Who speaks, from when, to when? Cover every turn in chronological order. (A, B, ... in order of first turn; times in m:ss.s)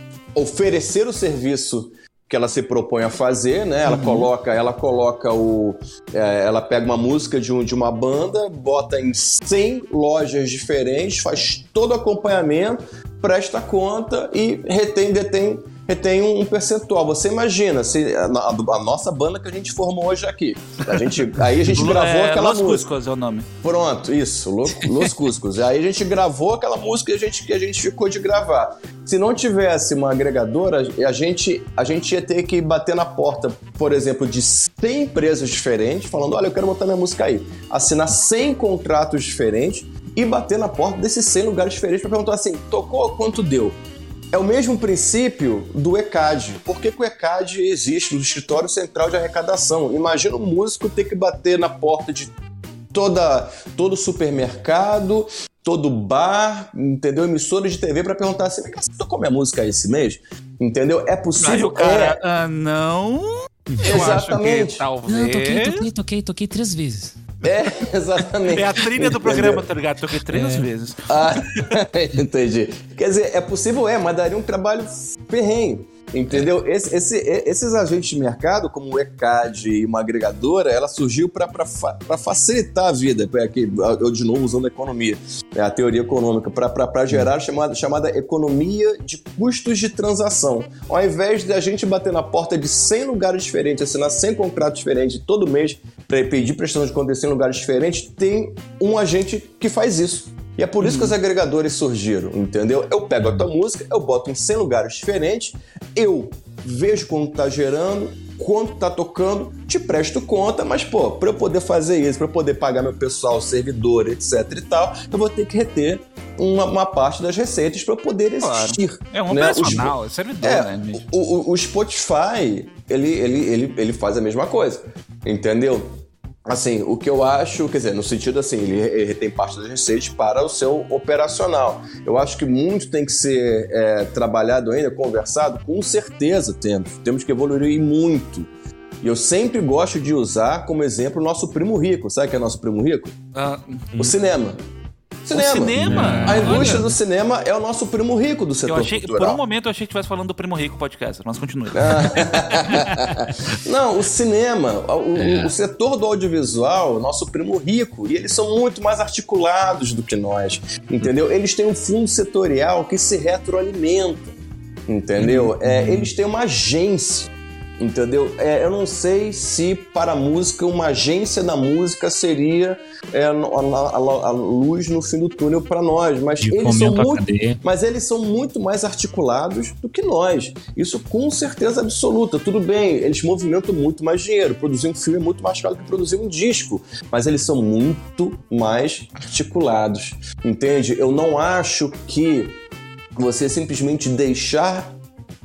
0:00.3-0:22.9 A
0:21.7-0:23.5 B
0:23.6-0:43.8 A
0:44.3-0:52.3 A
0:52.9-1:02.2 A
1:01.4-1:05.8 B
1:03.7-1:04.0 C
1:03.8-1:04.9 A
1:05.1-1:07.1 C
1:07.4-1:09.7 A
1:08.4-1:11.8 B
1:10.3-1:10.7 C
1:11.1-2:05.9 A
1:40.8-1:41.1 B
1:58.4-2:01.1 B
2:06.4-2:18.5 A
2:19.0-2:23.2 A
2:23.3-2:24.0 B
2:23.9-2:24.6 A
2:25.2-2:29.4 A
2:25.3-2:26.9 B
2:25.8-2:26.8 C
2:28.6-2:32.7 B
2:31.7-2:44.3 A
2:44.9-3:12.6 A
2:45.2-2:46.1 C
2:56.4-2:57.6 C
3:13.2-3:14.9 A